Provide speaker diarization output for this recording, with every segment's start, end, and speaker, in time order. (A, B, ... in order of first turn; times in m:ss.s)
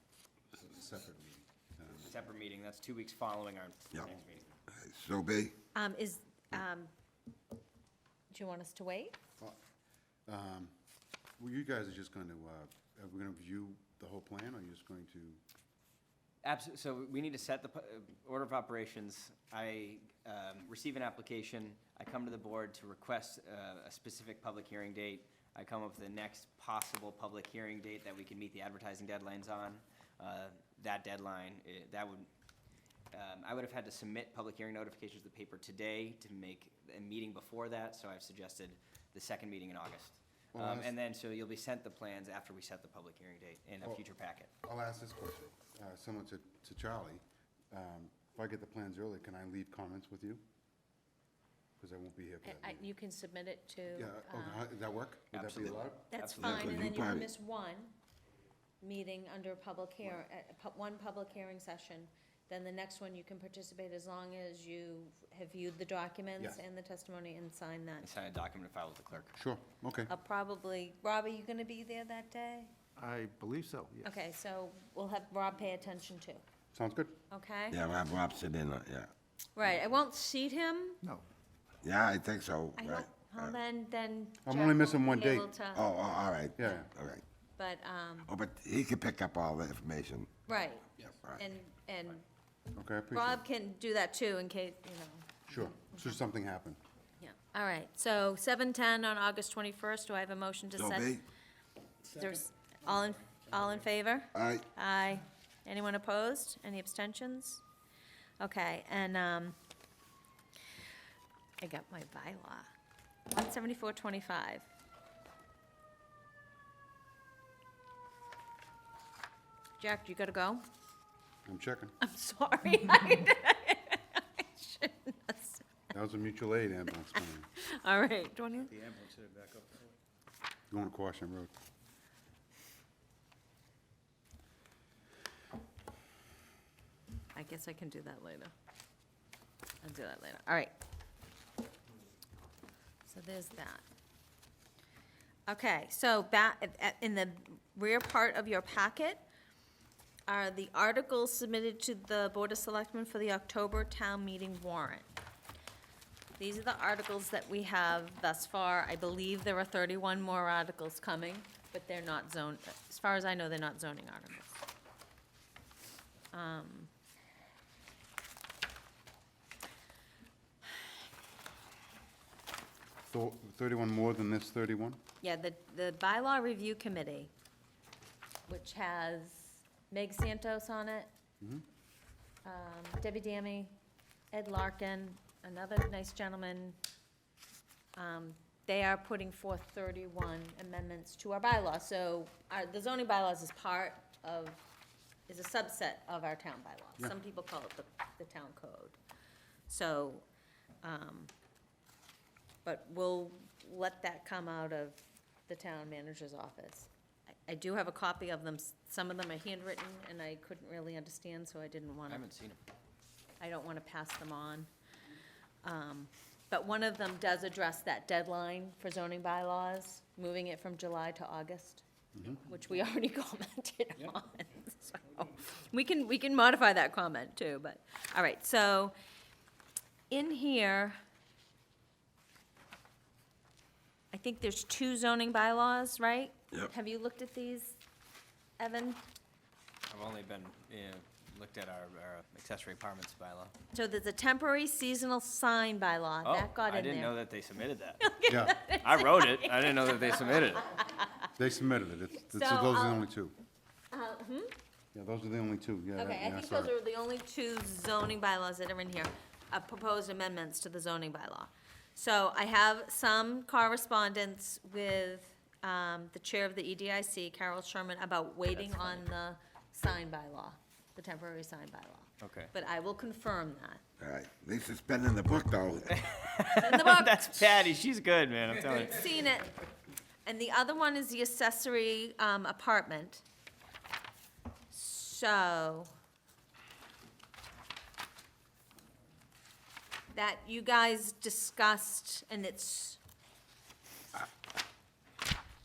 0:00.5-0:02.1 A
0:02.0-0:04.5 B
0:04.7-0:05.5 C
0:05.7-0:06.9 D
0:08.3-0:09.2 D
0:10.3-0:10.7 A
0:11.4-0:15.4 A
0:16.4-0:32.3 B
0:33.1-0:44.5 B
0:40.5-0:40.9 A
0:44.6-0:50.4 A
0:51.8-0:52.9 A
0:52.4-0:54.6 D
0:53.9-0:56.1 A
0:55.3-0:56.8 B
0:56.1-0:57.9 D
0:56.4-0:57.3 C
0:58.8-1:08.1 D
1:08.0-1:09.4 B
1:09.4-1:10.1 A
1:10.1-1:12.7 D
1:13.0-1:14.0 E
1:14.0-1:16.4 D
1:16.7-1:17.1 A
1:17.3-1:17.8 D
1:17.7-1:19.1 C
1:19.5-1:21.0 D
1:21.8-1:23.5 C
1:22.8-1:25.9 D
1:24.4-1:25.5 A
1:25.7-1:27.2 C
1:26.6-1:26.9 A
1:27.6-1:28.3 D
1:28.3-1:30.3 C
1:30.4-1:32.2 D
1:31.1-1:31.4 C
1:32.7-1:33.4 A
1:33.1-1:35.4 D
1:35.5-1:36.8 A
1:37.2-1:41.2 D
1:40.8-1:41.2 C
1:42.1-1:47.6 D
1:44.3-1:44.6 C
1:48.4-1:49.6 D
1:51.6-1:52.7 D
1:53.3-1:54.6 D
1:59.8-2:00.6 D
2:01.4-2:02.0 A
2:02.0-2:05.7 D
2:05.9-2:07.5 A
2:07.6-2:08.8 D
2:08.7-2:09.9 E
2:10.7-2:11.5 A
2:17.3-2:18.5 D
2:19.8-2:20.7 D
2:23.0-2:23.8 D
2:25.5-2:29.2 D
2:30.3-2:35.1 D
2:36.4-2:44.6 D
2:46.3-2:46.9 D
2:53.1-2:55.0 A
2:55.2-2:57.3 D
2:58.5-3:01.1 D
3:02.4-3:03.8 D
3:04.3-3:06.8 D
3:08.0-3:14.6 D
3:15.3-3:19.0 D
3:19.7-3:20.2 D
3:20.8-3:21.3 D
3:22.6-3:26.9 D
3:27.5-3:32.2 D
3:32.1-3:32.6 B
3:33.4-3:34.7 D
3:35.6-3:48.9 D
3:42.1-3:42.4 A
3:50.1-3:51.0 D
3:54.1-3:57.8 D
3:58.6-3:59.0 D
3:59.9-4:03.5 B
4:03.7-4:07.2 D
4:06.2-4:08.0 B
4:08.0-4:11.3 D
4:08.3-4:08.6 A
4:08.8-4:10.7 B
4:11.3-4:13.3 A
4:12.3-4:13.1 D
4:13.9-4:14.5 D
4:14.9-4:16.7 A
4:16.0-4:33.8 D
4:28.5-4:29.0 B
4:32.2-4:32.5 B
4:34.0-4:36.0 C
4:35.9-4:39.1 B
4:36.5-4:37.5 D
4:38.8-4:39.5 D
4:40.2-4:43.2 D
4:44.7-4:45.9 D
4:50.1-4:53.0 D